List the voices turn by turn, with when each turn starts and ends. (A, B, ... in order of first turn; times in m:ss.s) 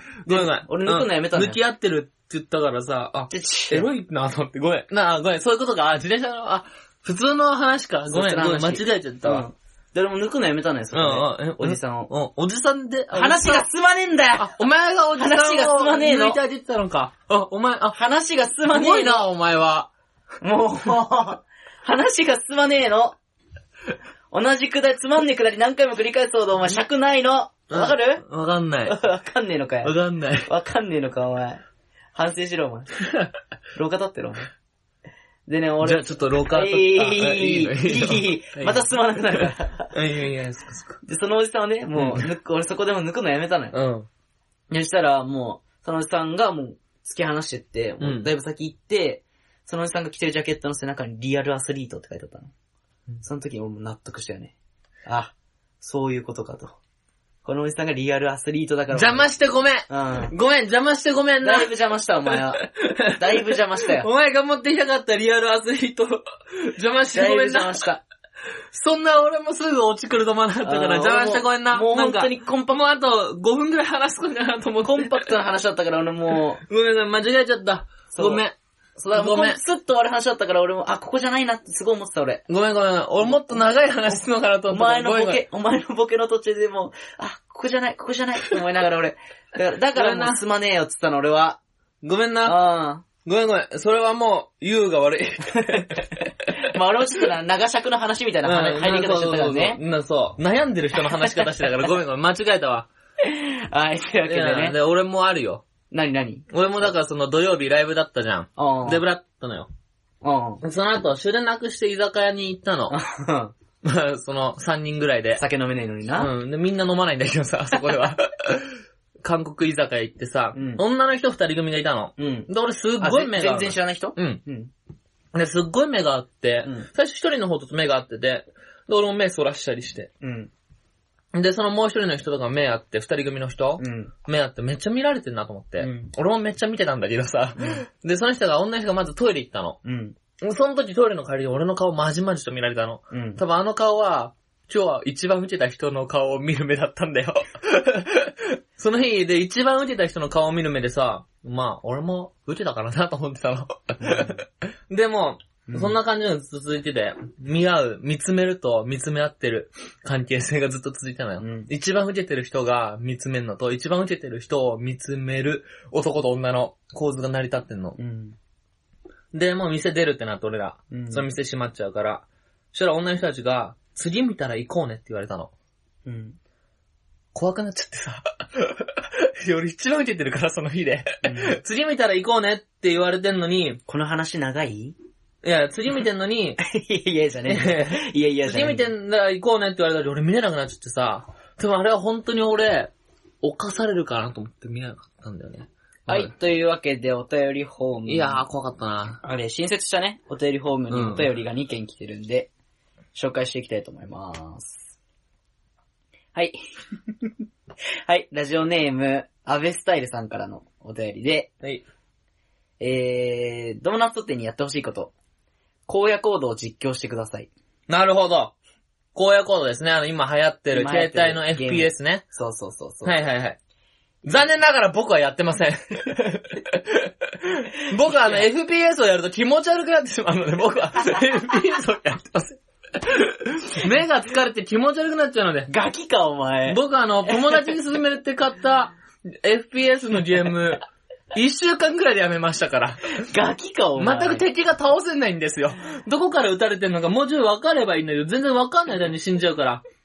0:00.2-0:09.4 A
0:00.2-0:01.6 B
0:03.3-0:03.9 B
0:08.1-0:12.1 B
0:10.9-0:13.6 A
0:13.1-0:14.6 B
0:14.4-0:18.0 A
0:15.2-0:16.4 B
0:17.9-0:19.3 B
0:18.7-0:19.9 A
0:20.4-0:23.2 B
0:24.3-0:28.2 B
0:27.7-0:29.0 A
0:28.8-0:31.6 B
0:29.8-0:30.5 A
0:32.1-0:32.9 B
0:33.7-0:34.5 B
0:35.5-0:39.9 B
0:35.8-0:41.0 A
0:41.0-0:43.8 B
0:42.0-0:42.3 A
0:43.7-0:44.1 A
0:44.7-0:52.5 B
0:48.0-0:48.3 A
0:53.2-0:54.5 B
0:55.0-0:56.8 B
0:57.4-0:59.3 B
0:58.9-1:01.7 A
0:59.9-1:00.3 B
1:01.4-1:02.6 B
1:02.2-1:07.8 A
1:03.2-1:04.1 B
1:07.1-1:08.0 B
1:08.7-1:15.2 A
1:10.6-1:12.8 B
1:14.8-1:16.6 B
1:16.7-1:18.5 A
1:18.1-1:18.4 B
1:19.0-1:22.4 B
1:19.1-1:19.6 A
1:22.5-1:25.4 A
1:23.2-1:31.6 B
1:29.9-1:30.4 A
1:32.0-1:32.6 A
1:32.4-1:33.0 B
1:33.2-1:36.7 A
1:35.6-1:35.9 B
1:36.5-1:39.8 B
1:38.4-1:42.9 A
1:41.1-1:41.5 B
1:43.2-1:44.8 B
1:44.2-1:45.6 A
1:45.9-1:46.9 B
1:46.5-1:49.7 A
1:48.6-1:49.0 B
1:50.2-1:50.6 B
1:50.6-1:53.0 A
1:52.9-1:53.5 B
1:53.8-1:55.4 A
1:55.4-1:56.3 B
1:56.1-2:04.4 A
2:00.5-2:00.8 B
2:02.2-2:04.7 B
2:05.3-2:10.1 A
2:10.2-2:10.5 B
2:11.3-2:19.8 A
2:13.8-2:14.1 B
2:15.8-2:16.1 B
2:19.8-2:20.2 B
2:20.4-2:48.0 A
2:23.1-2:23.4 B
2:34.0-2:34.4 B
2:35.7-2:36.0 B
2:41.4-2:41.7 B
2:48.0-2:48.4 B
2:49.3-2:55.5 A
2:50.9-2:51.3 B
2:56.0-2:56.4 B
2:57.3-3:03.8 A
3:01.2-3:01.6 B
3:03.9-3:05.0 B
3:05.4-3:06.6 A
3:06.6-3:08.9 B
3:07.5-3:12.9 A
3:13.4-3:16.3 A
3:16.1-3:18.4 B
3:18.0-3:19.2 A
3:19.2-3:22.5 B
3:20.9-3:21.3 A
3:23.1-3:24.8 B
3:28.0-3:31.5 B
3:32.8-3:35.1 B
3:35.9-3:37.5 B
3:37.9-3:38.5 A
3:39.1-3:42.2 A
3:40.7-3:43.2 B
3:43.0-3:43.6 A
3:44.2-3:55.7 A
3:48.0-3:48.5 B
3:55.7-3:57.7 B
3:56.7-4:03.2 A
4:03.2-4:04.4 B
4:04.0-4:09.8 A